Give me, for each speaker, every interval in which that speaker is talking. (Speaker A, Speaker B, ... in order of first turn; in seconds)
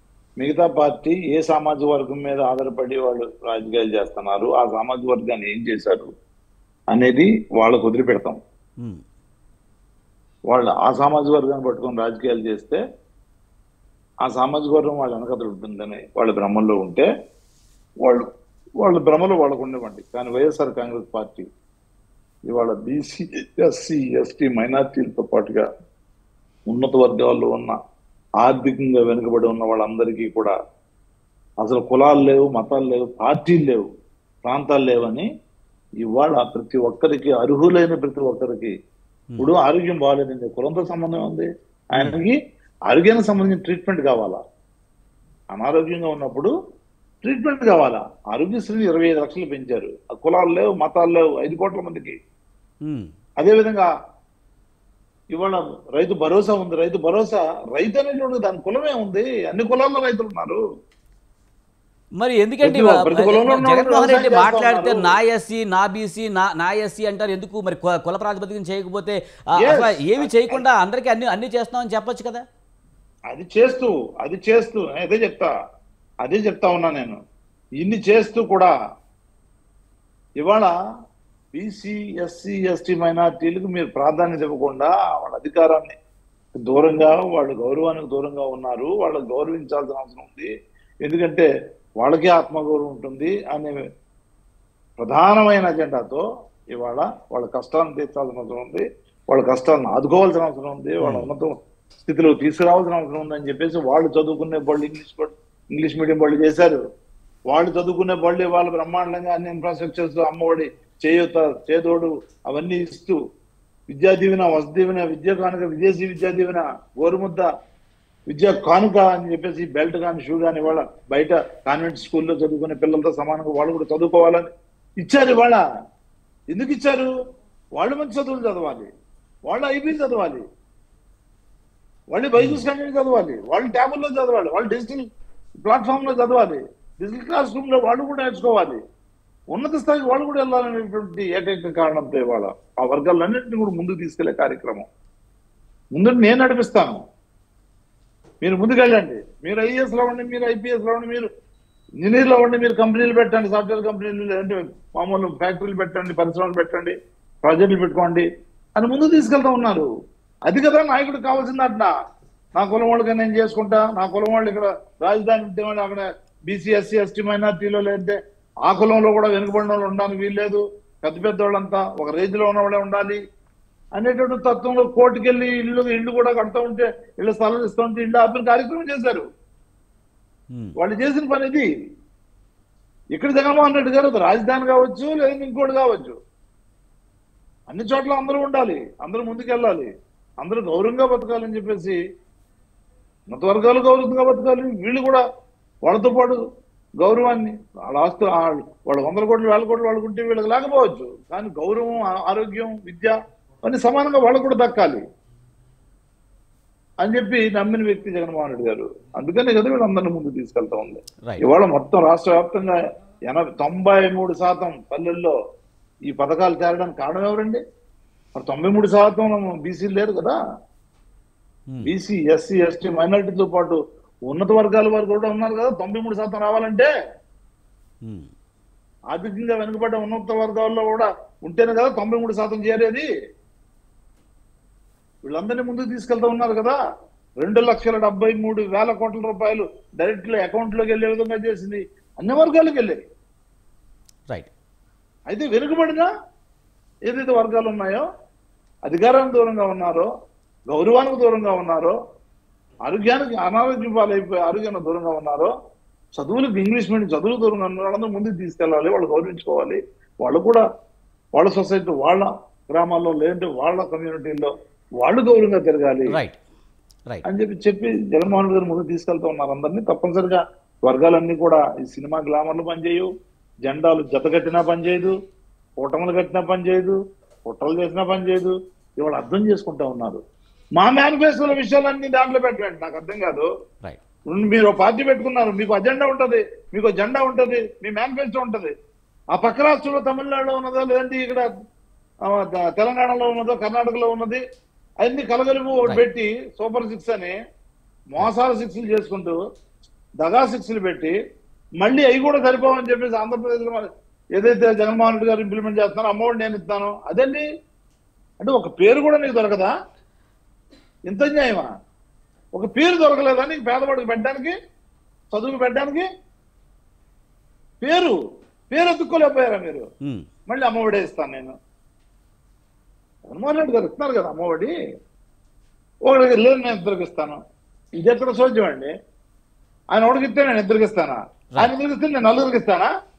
Speaker A: 0.4-6.1, 6.9-8.4, 10.5-12.8, 14.2-17.1, 18.8-21.5, 22.5-25.7, 26.7-27.8, 28.4-30.6, 31.6-33.9, 34.4-35.3, 36.0-38.7, 39.4-42.4, 42.9-44.4, 45.5-46.5, 47.2-52.2, 53.4-53.9, 55.3-60.6, 62.6-65.1, 69.6-70.6, 73.3-75.5, 76.2-77.2, 77.8-78.7, 80.4-80.7, 81.5-86.0, 86.6-90.5, 91.0-91.5, 92.0-93.8, 95.0-106.8, 107.5-113.2, 113.9-117.5, 118.3-124.5, 125.0-125.6, 126.5-127.1, 127.8-128.9, 129.5-130.4, 132.1-135.1, 135.6-138.8, 139.5-144.9, 145.9-147.0, 148.4-151.3, 152.0-159.9, 160.5-161.9, 162.6-173.2, 173.9-179.3, 180.8-181.7, 183.1-186.2, 187.7-189.9, 190.4-192.0, 193.3-195.2, 195.8-196.4, 197.0-205.0, 207.0-215.3, 216.1-217.6, 218.3-220.4, 221.8-226.9, 229.1-233.1, 235.2-236.8, 237.4-243.0, 245.3-246.1, 247.1-248.1, 248.9-250.1, 250.7-251.9, 252.8-255.5, 256.1-260.6, 261.4-266.2, 267.3-273.1, 273.6-275.2, 275.8-280.2, 280.8-283.5, 284.3-288.7, 289.3-291.5, 292.2-294.4, 295.0-297.4, 298.1-299.4, 300.2-301.1, 301.8-307.4, 308.4-309.7, 311.1-311.7, 312.5-314.6, 315.3-316.1, 317.8-318.2, 318.7-319.9, 320.5-321.6, 323.3-324.7, 326.1-327.4, 328.0-328.9, 329.9-332.9
Speaker B: 52.9-53.1, 62.2-72.4, 101.0-101.3, 132.4-132.6, 228.0-228.3, 266.1-266.4